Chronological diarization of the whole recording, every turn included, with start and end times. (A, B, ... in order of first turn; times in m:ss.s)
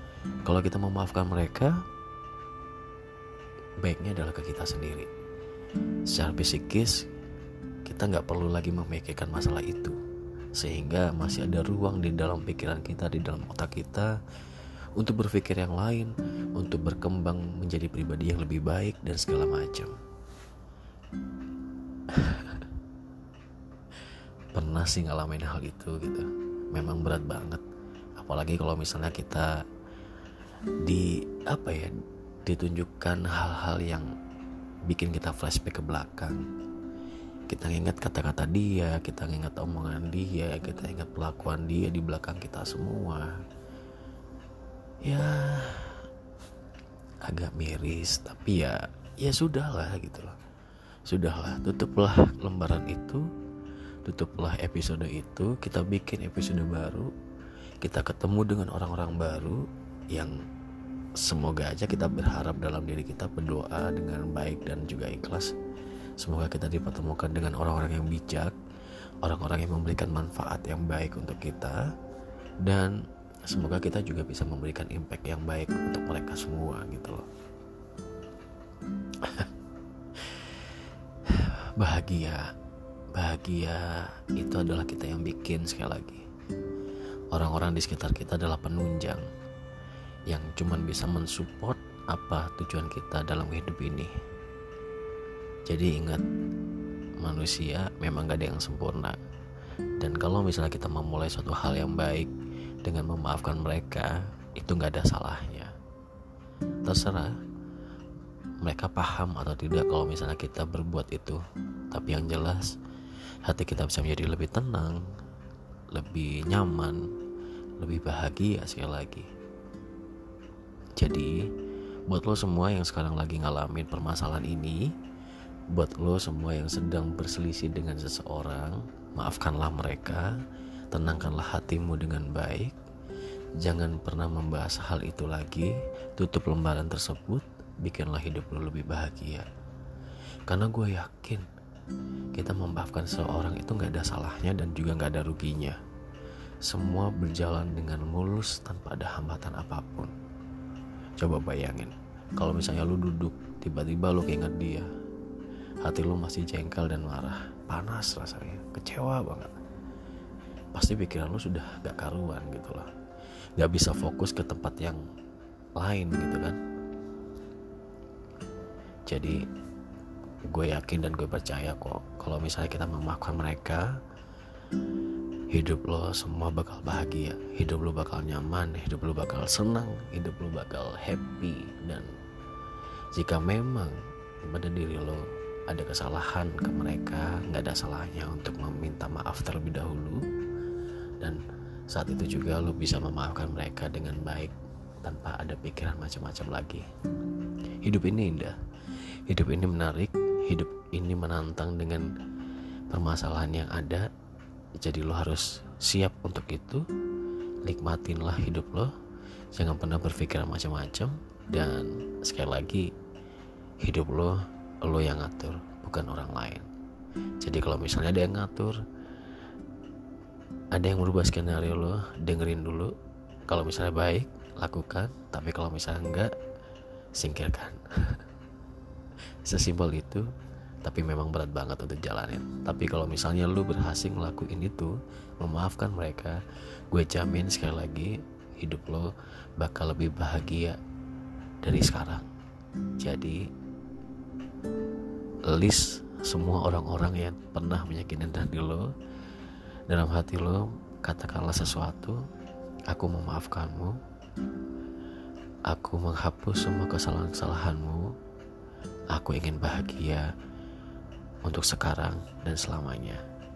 0:00.5-0:01.8 A
0:03.8-0:05.1 A
0:06.1-0:07.0 A
0:07.9-0:10.0 A
0:10.6-0:14.2 A
0:15.0-0:19.9 A
0:22.1-0:22.6 A
0:24.5-0:27.6 A
0:28.2-0:29.6 A
0:30.8-0:31.9 A
0:32.5-0:34.1 A
0:34.9-0:36.4 A
0:37.5-0:43.3 A
0:45.0-0:46.0 A
0:47.2-0:50.4 A
0:51.1-0:53.3 A
0:54.0-0:57.1 A
0:57.8-1:00.4 A
1:01.2-1:05.6 A
1:06.2-1:08.6 A
1:09.2-1:11.8 A
1:12.6-1:17.2 A
1:19.2-1:19.5 A
1:20.2-1:20.5 A
1:21.3-1:22.5 A
1:23.1-1:26.2 A
1:27.3-1:29.2 A
1:30.3-1:34.1 A
1:35.7-1:36.2 A
1:37.2-1:39.2 A
1:40.0-1:42.3 A
1:42.8-1:45.7 A
1:46.8-1:47.3 A
1:48.6-1:52.8 A
1:53.4-1:55.0 A
1:55.9-1:57.1 A
1:57.8-1:59.3 A
2:01.0-2:01.5 A
2:02.1-2:04.9 A
2:05.7-2:12.8 A
2:13.6-2:19.5 A
2:20.5-2:21.5 A
2:22.3-2:25.8 A
2:26.6-2:30.1 A
2:31.2-2:34.9 A
2:35.8-2:39.5 A
2:40.7-2:42.9 A
2:43.6-2:45.0 A
2:45.8-2:46.6 A
2:49.1-2:49.4 A
2:50.5-2:54.0 A
2:55.5-3:02.1 A
3:03.1-3:10.2 A
3:11.2-3:16.8 A
3:17.8-3:18.6 A
3:19.3-3:22.1 A
3:22.9-3:24.1 A
3:24.8-3:26.8 A
3:27.6-3:28.9 A
3:29.5-3:32.9 A
3:33.8-3:36.7 A
3:37.4-3:38.8 A
3:40.7-3:42.9 A
3:43.5-3:46.3 A
3:47.2-3:48.2 A
3:49.4-3:50.3 A
3:50.8-3:56.4 A
3:56.9-4:00.8 A
4:01.6-4:02.3 A
4:03.0-4:03.4 A
4:05.5-4:08.9 A
4:09.9-4:12.2 A
4:12.9-4:14.0 A
4:15.7-4:18.1 A
4:19.1-4:20.3 A
4:21.4-4:23.2 A